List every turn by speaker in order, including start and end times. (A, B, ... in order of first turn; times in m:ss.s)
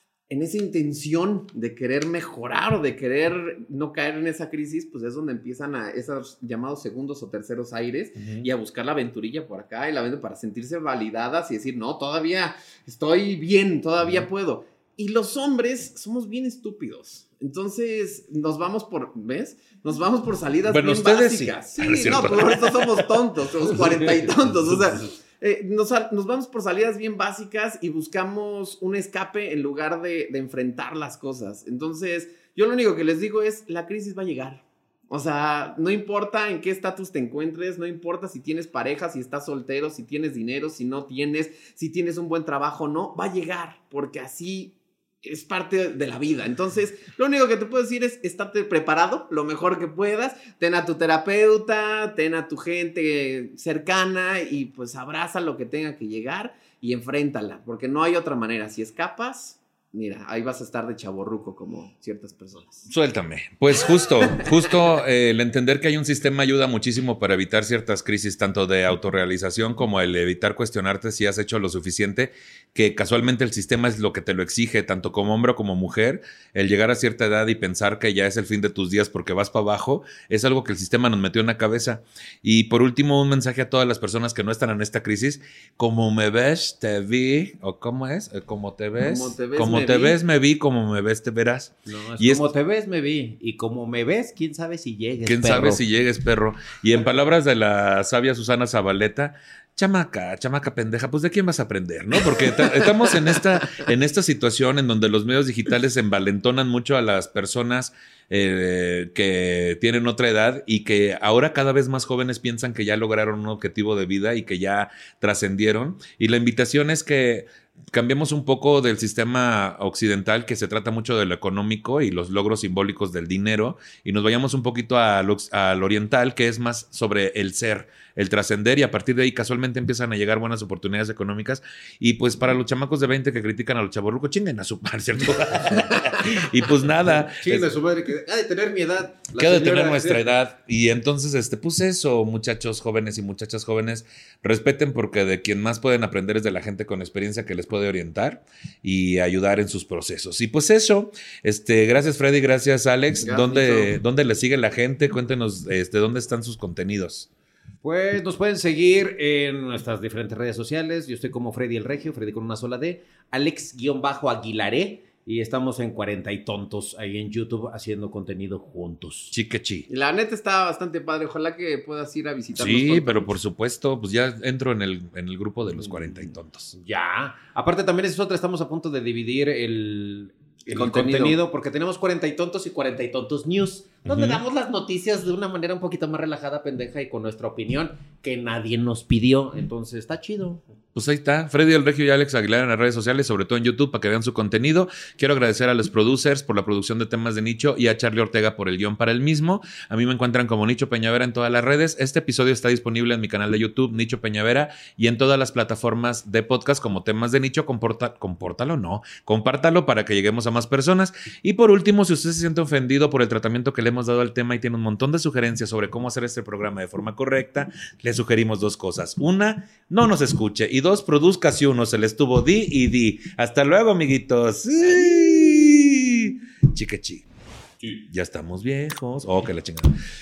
0:00.3-1:02.9 A
0:08.2-0:08.5 B
0:20.7-0:23.1 B
1:02.9-1:32.5 B
1:04.0-1:04.6 A
1:29.0-1:30.2 A
1:31.9-1:35.8 C
1:35.2-2:17.7 B
2:17.1-2:20.3 C
2:19.4-2:37.3 B
2:33.2-2:33.9 A
2:37.8-2:49.4 C
2:49.3-2:49.9 B
2:49.9-2:53.3 A
2:52.5-2:56.7 B
2:56.7-3:10.6 C
3:00.7-3:01.4 A
3:04.1-3:04.4 B
3:11.0-3:47.2 B
3:48.1-3:50.0 B